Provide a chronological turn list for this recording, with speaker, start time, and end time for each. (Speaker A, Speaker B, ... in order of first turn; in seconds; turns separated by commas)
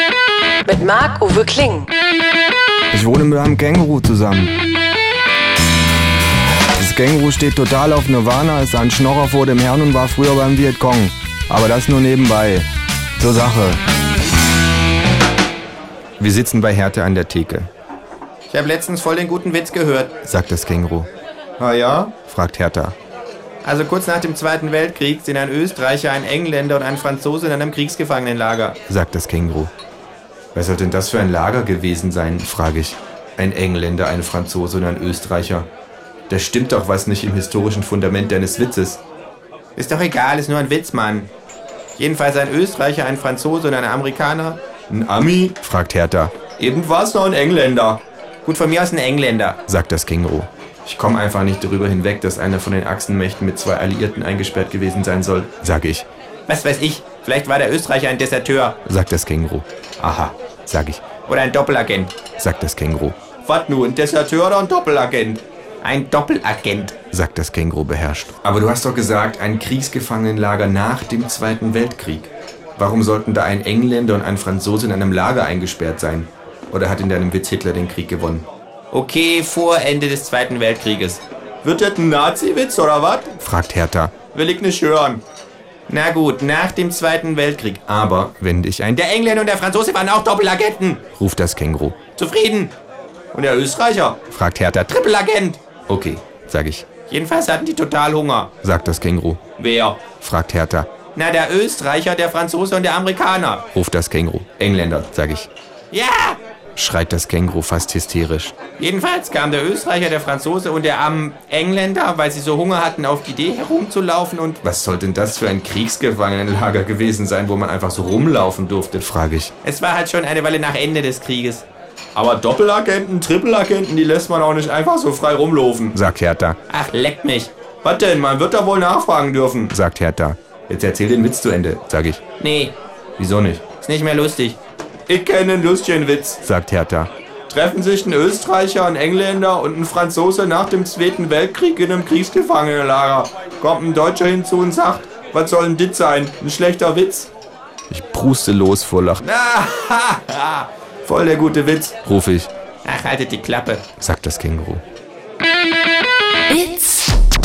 Speaker A: 0.6-1.9, Speaker B: 2.9-4.5, Speaker B: 6.8-12.7, Speaker B: 13.2-13.8, Speaker B: 16.2-17.7, Speaker C: 18.5-20.2, Speaker B: 20.2-21.1, Speaker B: 21.6-22.9, Speaker C: 23.6-28.8, Speaker B: 28.8-29.7, Speaker B: 30.5-35.7, Speaker B: 36.3-39.0, Speaker C: 39.8-41.3, Speaker C: 42.0-44.6, Speaker B: 44.8-48.0, Speaker C: 48.4-49.6, Speaker B: 49.6-56.0, Speaker C: 56.5-58.8, Speaker B: 58.8-61.2, Speaker C: 61.2-62.2, Speaker B: 62.2-63.5, Speaker C: 63.5-65.3, Speaker B: 64.7-65.4, Speaker C: 65.8-67.0, Speaker B: 67.0-78.5, Speaker C: 78.9-83.4, Speaker B: 83.2-84.4, Speaker C: 84.3-85.2, Speaker C: 85.9-88.0, Speaker B: 88.0-89.0, Speaker C: 89.0-91.1, Speaker B: 91.1-92.1, Speaker C: 92.1-92.7, Speaker C: 93.3-94.3, Speaker B: 94.2-95.0, Speaker C: 94.9-95.6, Speaker B: 95.7-97.0, Speaker C: 97.1-98.6, Speaker B: 98.6-99.5, Speaker C: 99.5-100.1, Speaker B: 100.1-101.0, Speaker C: 101.1-103.7, Speaker B: 103.7-105.5, Speaker C: 105.9-106.4, Speaker B: 106.7-108.6, Speaker C: 108.8-114.6, Speaker B: 114.6-119.5, Speaker C: 119.6-122.8, Speaker B: 122.2-126.7, Speaker C: 126.7-127.5, Speaker B: 127.8-132.3, Speaker C: 132.4-132.7, Speaker B: 133.2-133.8, Speaker C: 133.7-134.6, Speaker B: 135.1-147.3, Speaker B: 147.9-149.7, Speaker C: 149.5-150.6, Speaker B: 151.0-152.5, Speaker C: 152.8-153.9, Speaker B: 153.9-154.8, Speaker A: 156.5-157.1